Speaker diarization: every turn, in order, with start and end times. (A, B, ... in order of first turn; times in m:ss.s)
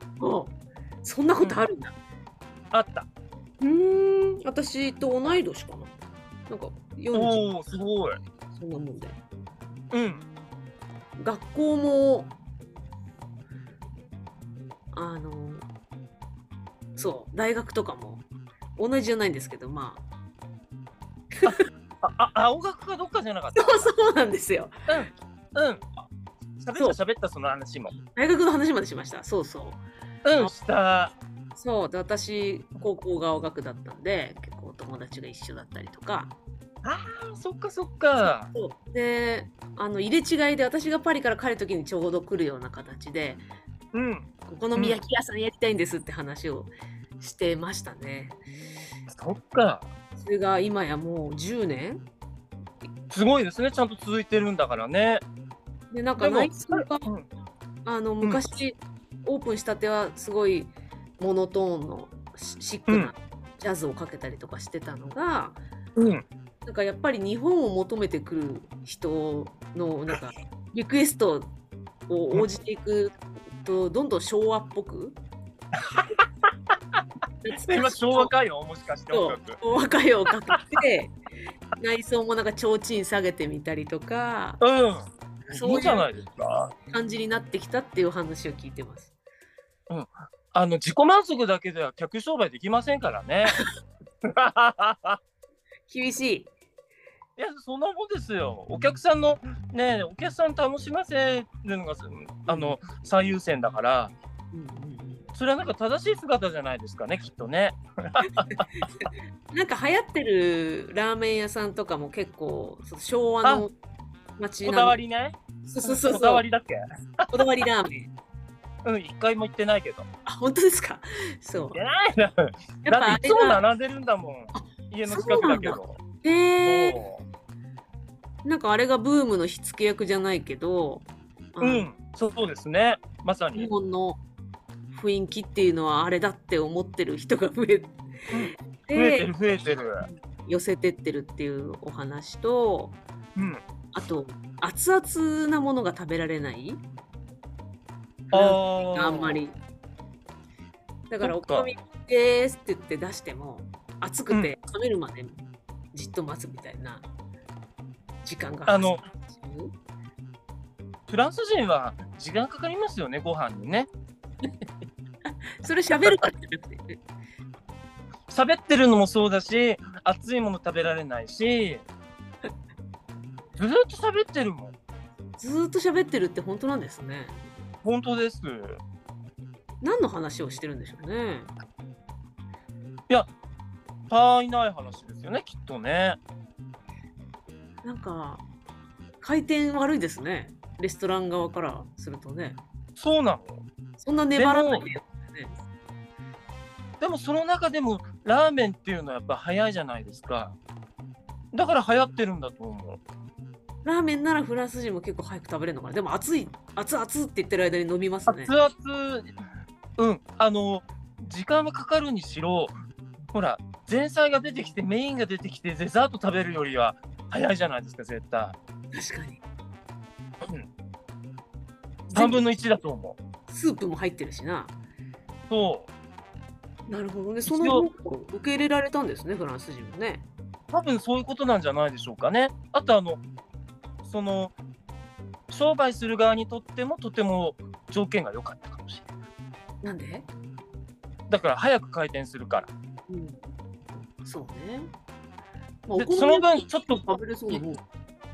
0:00.2-0:02.0 A
0:02.7-0:03.1 B
0:03.6-0:05.9 A
0:06.5-0:07.5 A
0:07.1-0:08.2 B
0:08.5-0:09.2 A
0:09.9-0:10.2 B
0:11.2-0:12.3 A
0:14.9-0:15.7 A
0:17.0-0:18.2 A
0:18.8-0:20.0 A
0:21.4-0:21.6 A
0:21.4-0:23.9 B
0:23.6-0:24.9 A
0:24.9-0:25.9 B
0:26.6-0:27.9 B
0:28.1-0:29.8 A
0:30.2-0:31.1 B
0:31.6-0:36.4 A
0:36.8-0:38.5 B
0:38.5-0:43.4 A
0:43.9-0:45.0 B
0:44.5-0:48.4 A
0:49.1-0:49.9 B
0:50.2-0:52.0 A
0:53.1-0:55.2 B
0:55.9-0:57.1 A
0:56.2-0:57.3 B
0:57.8-1:05.6 A
1:02.9-1:03.1 B
1:06.0-1:06.2 B
1:06.6-1:11.5 A
1:12.1-1:15.2 A
1:15.9-1:16.2 B
1:17.4-1:18.3 A
1:17.6-1:19.6 B
1:19.1-1:21.2 A
1:21.8-1:24.6 A
1:24.6-1:26.7 B
1:25.5-1:26.1 A
1:26.9-1:29.1 A
1:29.9-1:33.6 B
1:34.2-1:35.2 B
1:35.9-1:36.5 A
1:37.4-1:44.1 B
1:42.5-1:42.8 A
1:44.5-1:45.2 A
1:45.4-1:48.8 B
1:48.3-1:53.7 A
1:54.4-1:55.0 A
1:54.6-1:57.4 B
1:55.7-1:56.4 A
1:57.3-1:58.1 A
1:58.8-2:00.1 B
2:00.3-2:01.8 A
2:01.7-2:06.0 B
2:02.8-2:03.6 A
2:04.6-2:07.0 A
2:06.6-2:07.2 B
2:08.4-2:11.9 A
2:11.6-2:13.7 B
2:13.5-2:14.2 A
2:14.9-2:19.3 A
2:18.3-2:20.1 B
2:20.0-2:23.0 A
2:23.4-2:23.6 B
2:23.9-2:26.8 A
2:28.3-2:29.6 A
2:28.3-2:29.4 B
2:31.1-2:35.4 A
2:31.2-2:31.7 B
2:34.3-2:34.6 B
2:35.9-2:37.1 A
2:38.2-2:39.7 A
2:38.7-2:39.0 B
2:41.1-2:43.9 B
2:45.6-2:47.0 A
2:48.3-2:51.8 B
2:53.6-2:54.8 B
2:55.4-2:57.5 A
2:57.8-2:58.8 B
2:59.8-3:01.5 A
3:04.1-3:06.2 B
3:07.8-3:08.4 A
3:09.2-3:12.6 A
3:13.0-3:13.6 B
3:14.0-3:15.6 A
3:14.3-3:14.8 B
3:17.0-3:20.6 B
3:21.5-3:23.0 B
3:23.8-3:28.5 A
3:28.3-3:29.3 B
3:30.0-3:32.8 B
3:33.3-3:38.6 B
3:38.9-3:39.4 A
3:40.4-3:40.7 B
3:42.1-3:42.4 A
3:42.1-3:43.2 B
3:43.5-3:44.8 A
3:45.5-3:45.9 B
3:46.9-3:50.2 A
3:47.5-3:47.9 B
3:50.7-3:53.2 B
3:54.0-3:54.6 B
3:55.5-3:59.1 B
3:59.8-4:00.3 A
4:01.3-4:02.7 B
4:03.1-4:03.4 A
4:04.0-4:04.9 A
4:05.9-4:07.8 A
4:06.0-4:07.6 B